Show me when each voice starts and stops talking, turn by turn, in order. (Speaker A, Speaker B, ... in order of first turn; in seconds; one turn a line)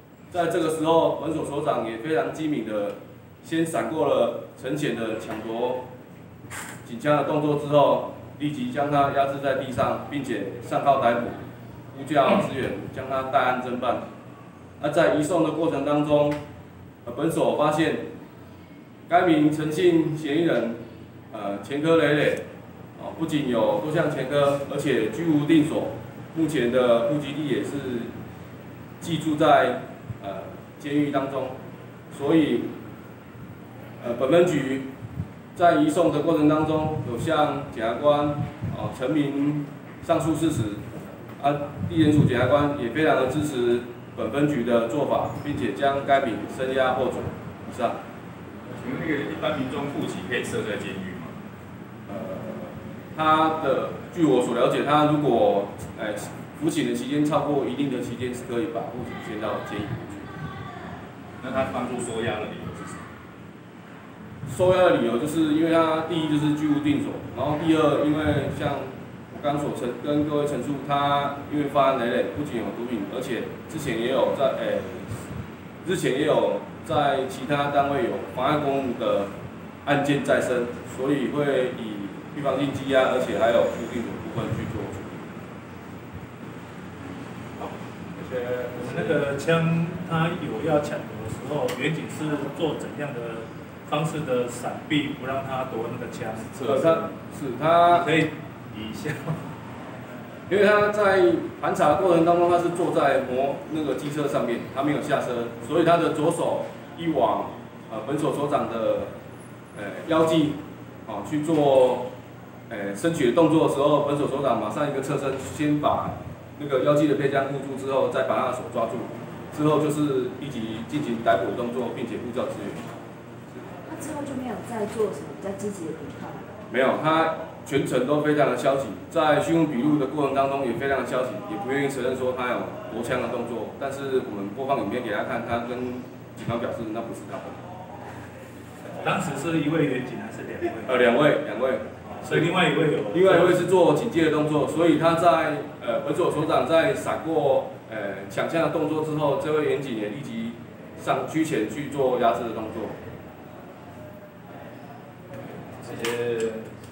Speaker A: 0.3-5.8
Speaker A: 6.8-14.0
Speaker A: 14.8-16.4
Speaker A: 17.1-18.1
Speaker A: 19.1-20.8
Speaker A: 21.3-22.4
Speaker A: 23.0-28.1
Speaker A: 29.0-31.6
Speaker A: 32.1-32.7
Speaker A: 34.0-34.9
Speaker A: 35.5-40.9
Speaker A: 41.4-48.0
Speaker B: 48.8-51.3
Speaker A: 52.1-60.0
Speaker B: 61.4-63.0
Speaker A: 64.5-75.2
Speaker A: 75.8-79.3
Speaker A: 79.8-85.3
Speaker C: 87.6-97.1
Speaker A: 96.7-98.1
Speaker C: 97.9-99.4
Speaker A: 100.5-109.1
Speaker A: 109.8-112.1
Speaker A: 112.7-122.9
Speaker D: 123.9-126.5
Speaker A: 126.7-137.6
Speaker C: 139.0-141.0
Speaker A: 140.9-142.5
Speaker C: 142.2-143.6
Speaker A: 143.1-153.0
Speaker B: 155.8-156.6